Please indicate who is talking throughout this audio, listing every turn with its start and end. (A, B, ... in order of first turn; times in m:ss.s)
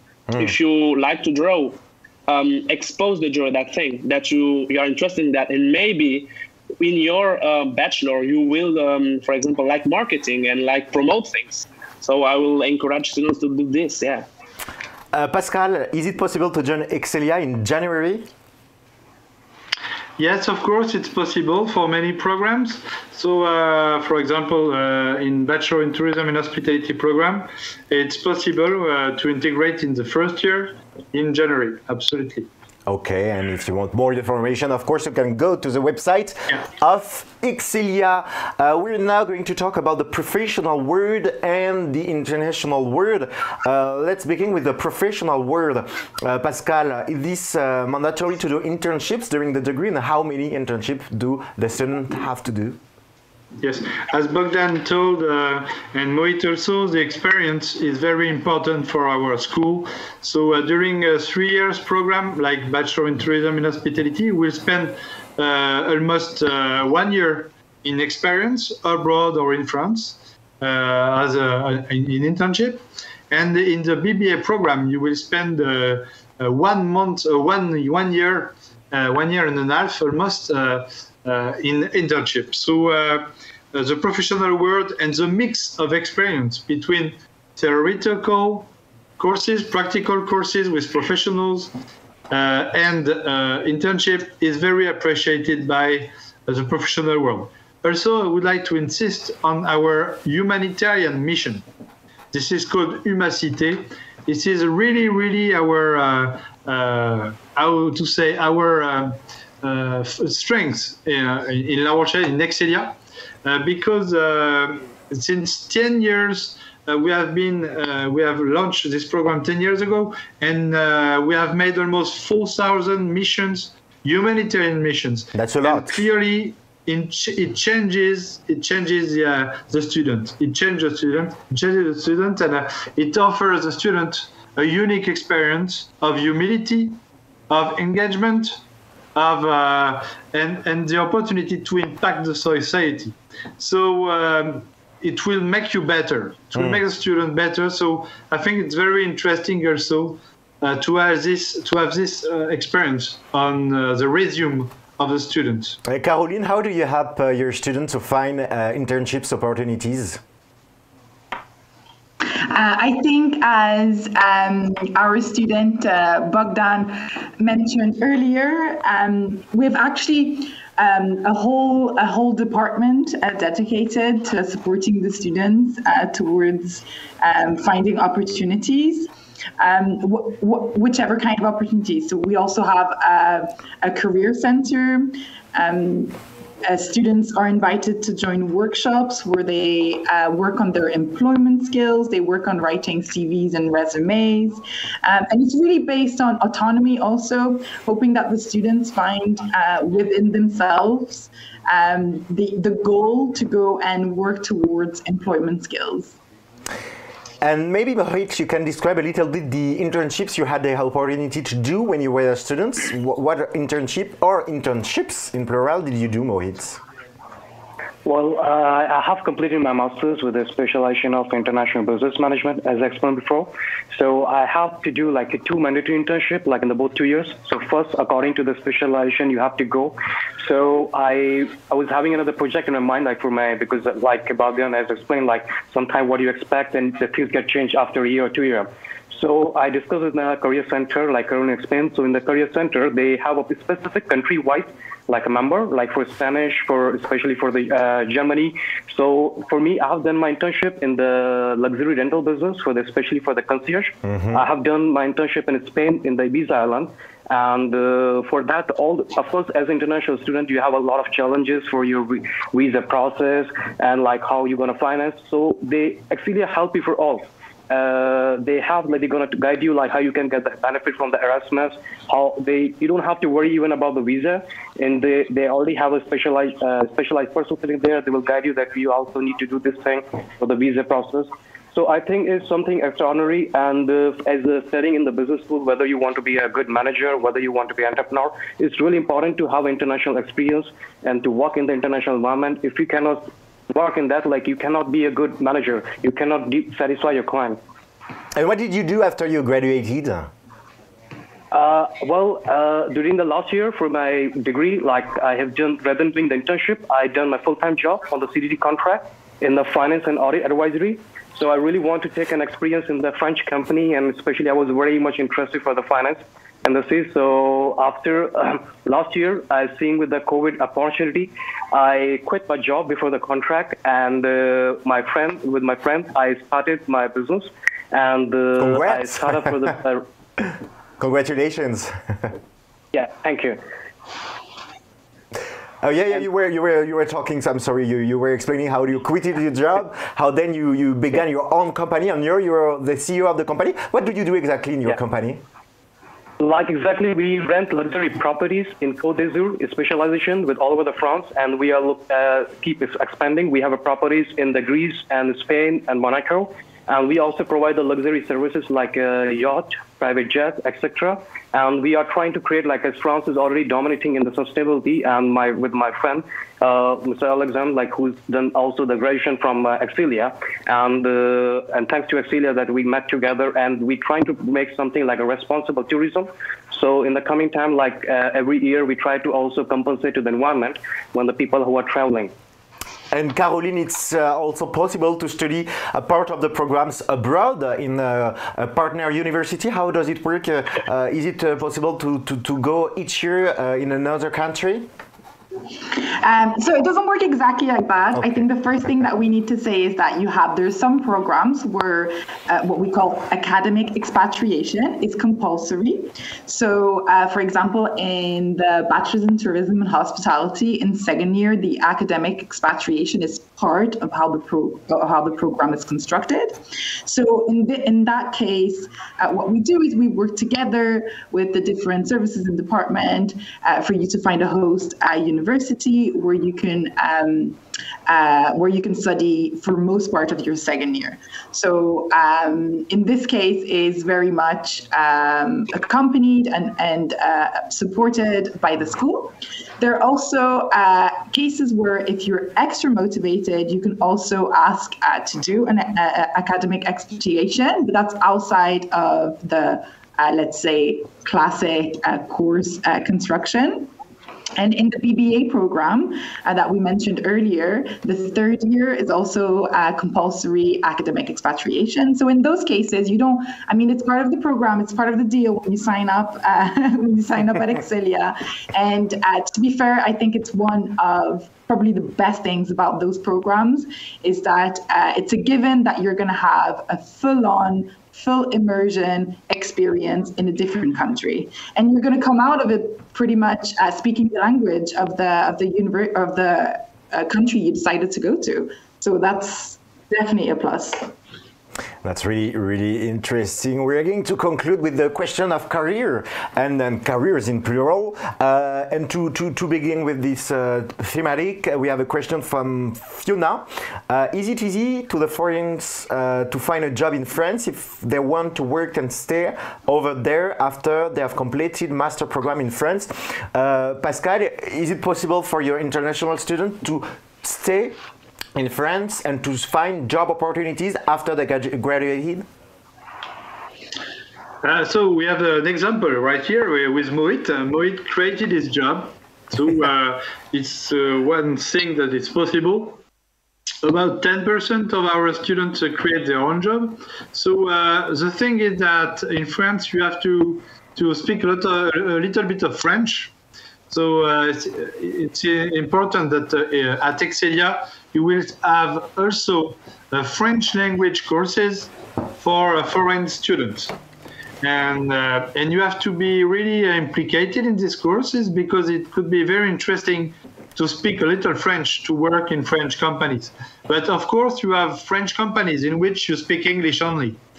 0:00.3-0:00.5 A
0:00.4-0:14.2 B
0:15.1-0:18.3 A
0:20.2-0:32.5 C
0:32.9-0:52.8 A
0:53.6-1:31.7 C
1:32.3-1:41.6 C
1:42.3-2:18.6 C
2:05.3-2:06.0 A
2:19.1-2:35.8 C
2:35.8-2:40.2 A
2:42.3-3:26.2 D
3:27.4-3:36.8 A
3:38.0-4:57.6 E
4:14.0-4:14.4 A
4:58.3-5:00.3 A
5:01.5-5:30.1 E
5:28.6-5:29.7 A
5:31.0-5:32.3 A
5:32.9-5:33.6 E
5:35.8-5:45.4 A
5:46.4-6:22.3 E
6:23.1-6:34.9 A
6:35.9-7:33.9 D
7:34.6-8:11.1 D
8:12.0-8:38.0 A
8:38.5-8:42.4 A
8:44.6-8:53.0 C
8:53.8-9:03.3 C
9:03.9-9:13.9 C
9:14.6-9:27.4 C